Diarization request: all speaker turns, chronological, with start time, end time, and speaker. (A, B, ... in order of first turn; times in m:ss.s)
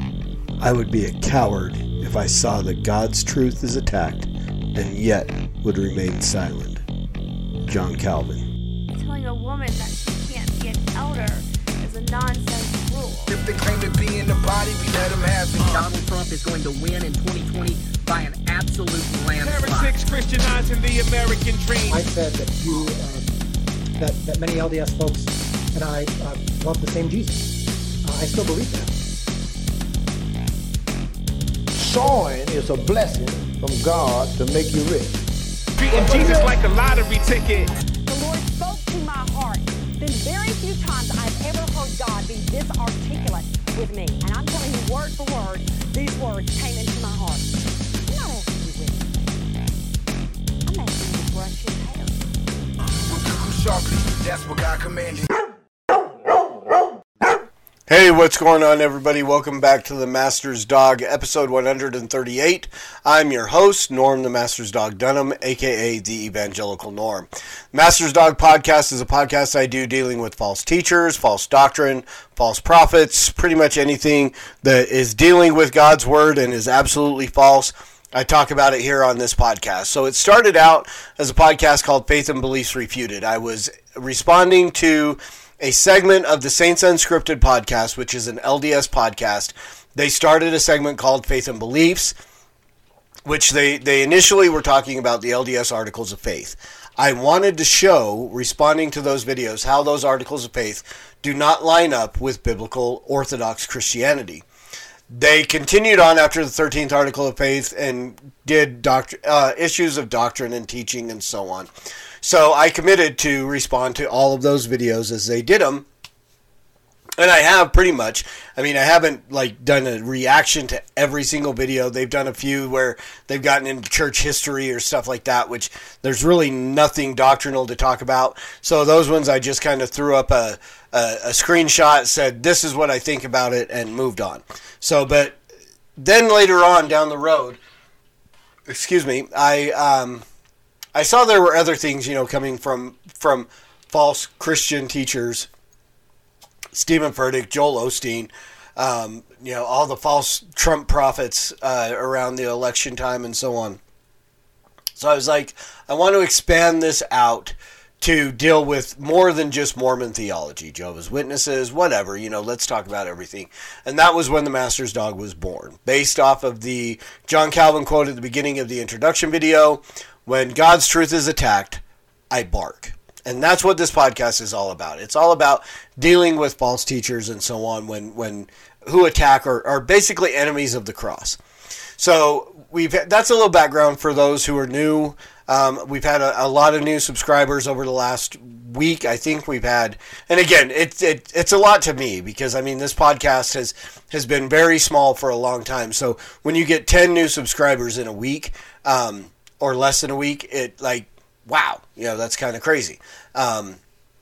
0:00.6-0:06.8 A
0:07.7-0:08.4 A
0:08.9-0:13.3 B
0:13.3-0:15.8 C
0:15.6-0:20.0 D
0:19.4-0:22.0 E
0:21.9-0:23.3 F
0:24.0-0:28.9 F
0:31.8-0:35.2 G
0:35.8-0:37.7 E
0:35.9-0:36.5 G
0:38.0-0:47.5 H
0:48.0-0:49.2 H
0:50.6-0:52.2 H
0:53.1-0:55.3 C
0:57.9-1:32.1 A
1:33.2-1:44.4 A
1:45.1-1:51.7 A
1:52.2-1:55.9 A
1:57.2-2:15.4 A
2:16.0-2:17.6 A
2:18.7-2:20.2 A
2:20.9-2:25.5 A
2:26.7-2:33.8 A
2:35.0-3:01.4 A
3:02.0-3:23.8 A